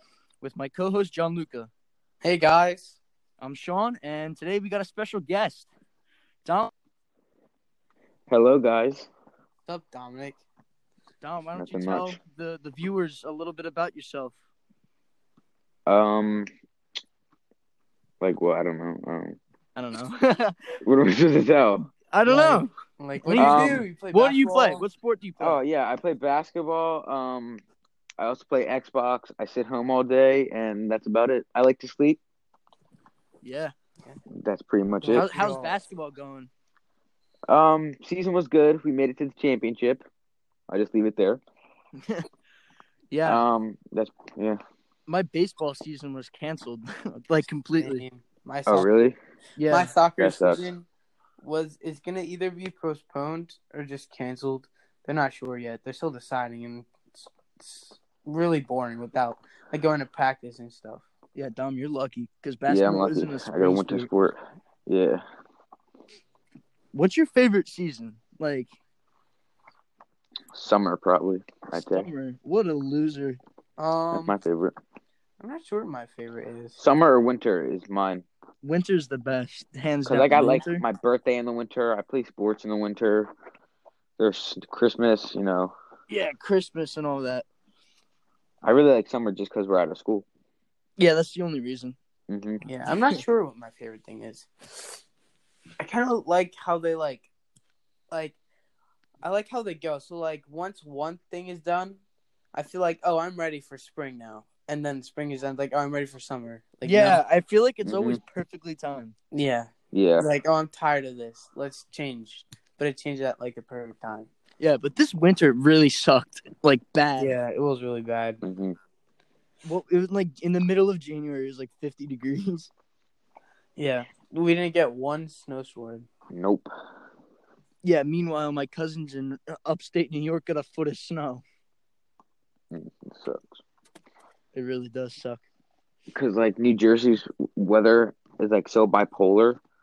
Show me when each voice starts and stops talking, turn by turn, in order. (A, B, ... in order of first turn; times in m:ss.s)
0:00.4-0:01.7 A
0:02.2-0:03.0 B
0:03.4-0:05.7 A
0:06.4-0:06.7 A
0:08.3-0:09.1 C
0:09.7-0:10.4 B
0:11.2-0:14.3 A
0:11.6-0:12.2 C
0:15.9-0:16.5 C
0:18.2-0:19.4 C
0:19.8-0:20.8 A
0:20.8-0:21.9 C
0:22.1-0:22.7 A
0:22.2-0:24.8 B
0:23.2-0:25.6 A
0:23.4-0:23.8 C
0:25.4-0:27.6 C
0:28.2-0:32.2 C
0:33.4-0:33.7 A
0:34.4-0:35.3 C
0:35.0-0:35.8 B
0:35.1-0:36.5 A
0:37.5-0:40.0 C
0:40.7-0:41.4 C
0:42.0-0:42.3 A
0:43.1-0:43.4 A
0:43.2-0:44.6 C
0:45.1-0:48.0 A
0:47.8-0:48.9 B
0:48.7-0:49.2 C
0:49.6-0:49.9 A
0:49.7-0:50.9 B
0:50.2-0:50.6 C
0:51.4-1:01.0 B
1:01.4-1:04.1 A
1:02.7-1:05.2 C
1:06.9-1:08.7 A
1:10.5-1:12.1 C
1:11.7-1:13.4 A
1:13.8-1:14.4 B
1:14.1-1:14.8 C
1:15.4-1:16.8 B
1:16.8-1:18.2 C
1:18.6-1:20.8 A
1:20.1-1:23.3 C
1:24.2-1:25.7 C
1:26.1-1:27.4 A
1:28.6-1:30.3 C
1:31.0-1:32.0 A
1:32.3-1:32.6 C
1:32.6-1:35.0 B
1:35.8-1:37.3 B
1:38.1-1:38.4 B
1:39.2-1:42.0 B
1:42.5-1:47.2 B
1:46.8-1:49.2 A
1:47.8-1:48.2 C
1:49.3-1:54.3 B
1:49.9-1:50.3 C
1:54.6-1:57.3 A
1:57.2-1:58.4 B
1:58.4-1:58.8 C
1:59.6-2:02.7 A
2:03.8-2:06.1 B
2:06.3-2:06.7 C
2:07.8-2:11.4 A
2:12.7-2:13.6 C
2:14.5-2:15.4 A
2:16.1-2:19.6 C